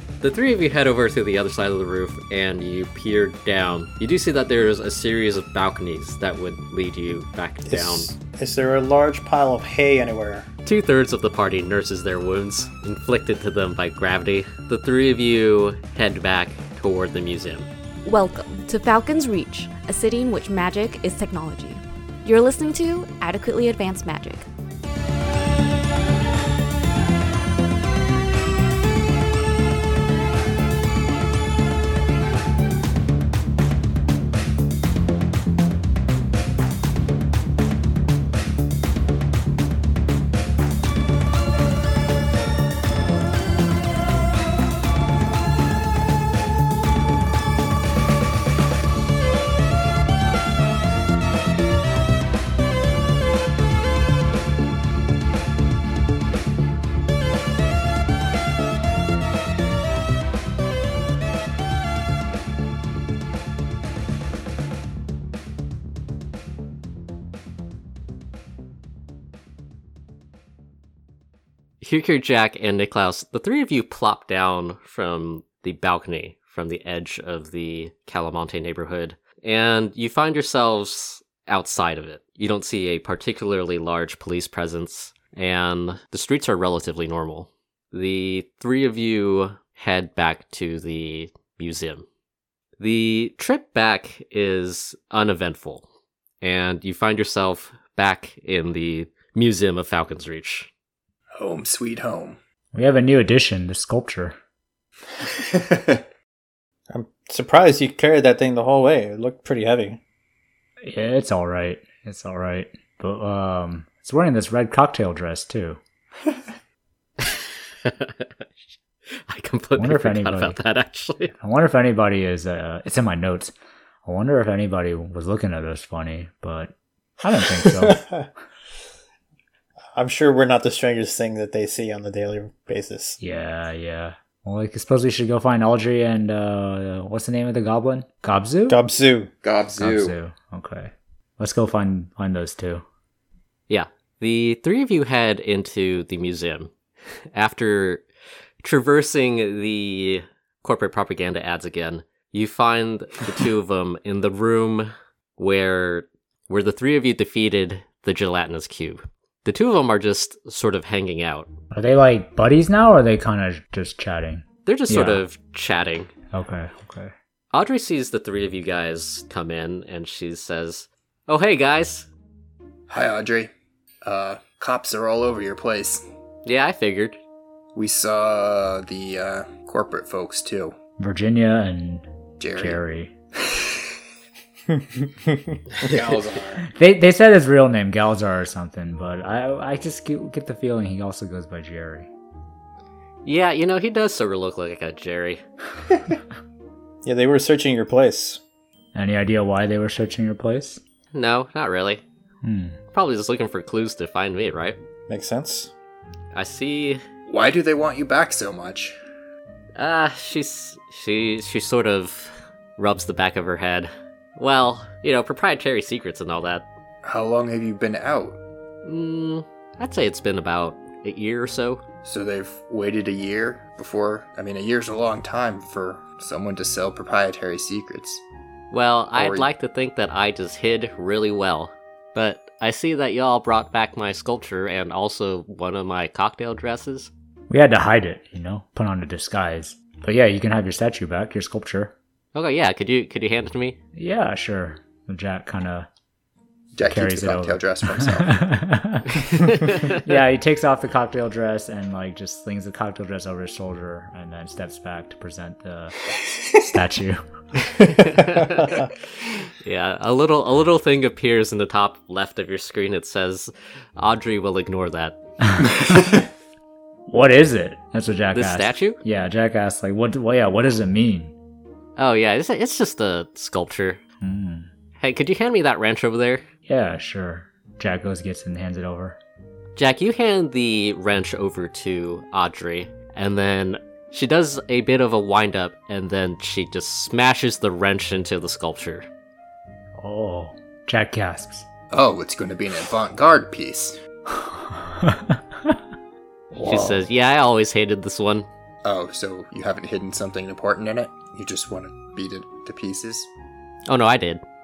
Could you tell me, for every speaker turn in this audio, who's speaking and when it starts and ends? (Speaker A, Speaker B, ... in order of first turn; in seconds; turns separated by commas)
Speaker A: 0.2-8.1, Speaker B: 7.7-10.5, Speaker A: 10.7-17.7, Speaker C: 18.1-24.5, Speaker A: 71.8-92.1, Speaker A: 92.8-95.8, Speaker A: 96.4-100.7, Speaker D: 101.4-102.4, Speaker E: 102.7-104.4, Speaker D: 105.4-106.0, Speaker B: 106.9-110.0, Speaker E: 110.8-115.8, Speaker A: 117.2-118.3, Speaker A: 119.3-121.3, Speaker E: 119.8-120.6, Speaker E: 121.4-123.5, Speaker E: 124.0-128.1, Speaker B: 127.6-128.3, Speaker B: 129.9-133.2, Speaker E: 133.2-138.8, Speaker B: 138.7-139.3, Speaker D: 139.4-140.2, Speaker E: 139.8-142.8, Speaker A: 143.7-146.7, Speaker A: 147.3-148.0, Speaker A: 148.6-161.5, Speaker E: 161.7-165.2, Speaker A: 164.7-166.1, Speaker E: 166.3-167.1, Speaker A: 167.5-172.1, Speaker D: 172.9-173.5, Speaker D: 174.0-176.0, Speaker A: 176.4-177.2, Speaker D: 177.8-180.8, Speaker E: 181.0-183.1, Speaker D: 182.4-182.8, Speaker B: 185.3-186.0, Speaker D: 185.8-186.6, Speaker E: 186.7-192.1, Speaker A: 193.2-195.4, Speaker B: 197.0-198.4, Speaker E: 198.9-200.8, Speaker A: 201.1-202.0, Speaker E: 202.4-202.8, Speaker A: 202.9-204.8, Speaker B: 205.1-205.7, Speaker A: 206.3-207.0, Speaker D: 207.3-209.0, Speaker A: 209.8-216.7, Speaker D: 217.0-218.4, Speaker A: 218.8-221.8, Speaker D: 222.0-228.2, Speaker A: 228.7-237.1, Speaker D: 229.1-229.5, Speaker E: 237.5-241.9, Speaker A: 242.3-243.8, Speaker E: 243.9-245.9, Speaker D: 246.7-248.5, Speaker E: 246.9-256.0, Speaker E: 256.6-257.2, Speaker A: 257.9-258.9, Speaker A: 259.5-265.2, Speaker E: 265.5-265.8, Speaker E: 267.1-271.3, Speaker A: 268.3-269.0, Speaker A: 272.0-274.0, Speaker E: 274.2-274.7, Speaker A: 275.0-276.4, Speaker E: 276.7-279.2, Speaker A: 279.8-289.1, Speaker E: 290.0-291.7, Speaker D: 291.9-294.0, Speaker E: 294.3-295.8, Speaker D: 296.6-297.0, Speaker A: 296.6-298.5, Speaker D: 298.8-303.3, Speaker A: 303.9-304.4